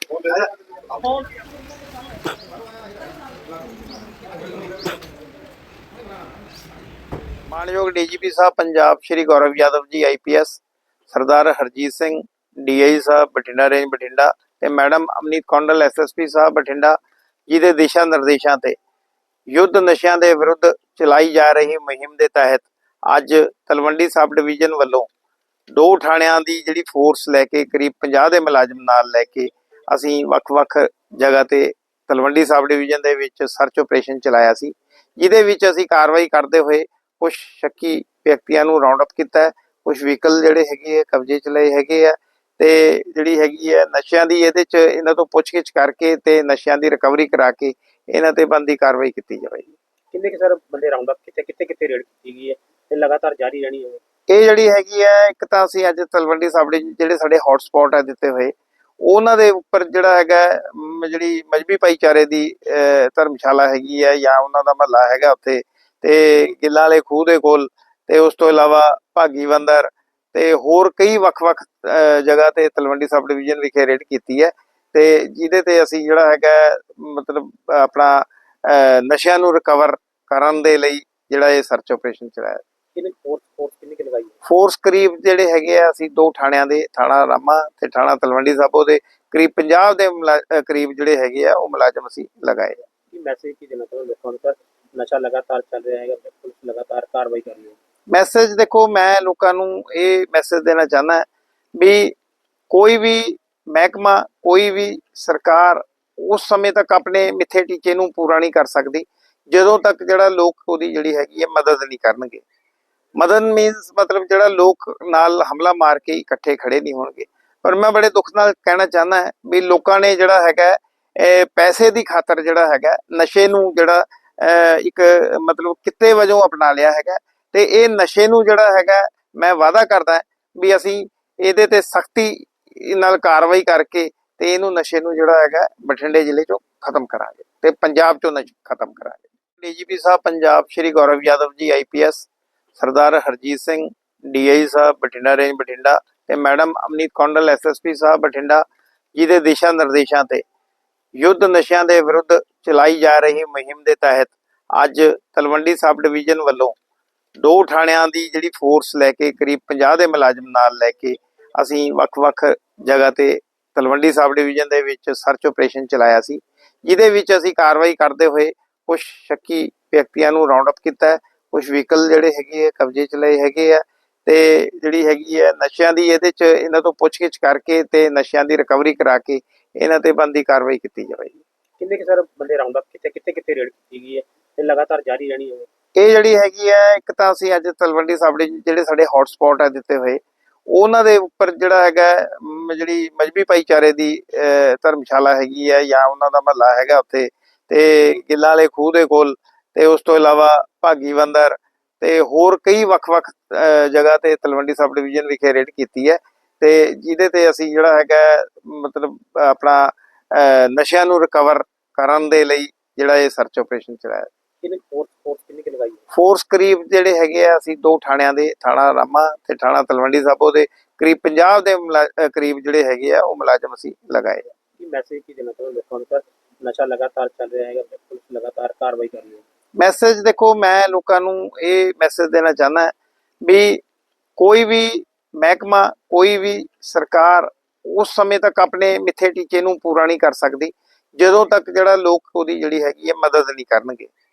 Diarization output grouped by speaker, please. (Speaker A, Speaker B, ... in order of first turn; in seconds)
Speaker A: 0.2-0.5, 7.5-17.0, 17.5-18.8, 19.5-25.1, 25.7-49.7, 54.3-82.6, 84.5-92.8, 98.1-102.2, 102.7-112.4, 113.2-150.4, 151.2-156.7, 157.4-181.4, 186.0-214.3, 216.1-224.5, 229.8-233.8, 234.4-244.1
Speaker B: 50.1-54.0, 83.0-84.4, 93.1-97.8, 181.8-185.7, 214.6-216.0, 224.8-229.4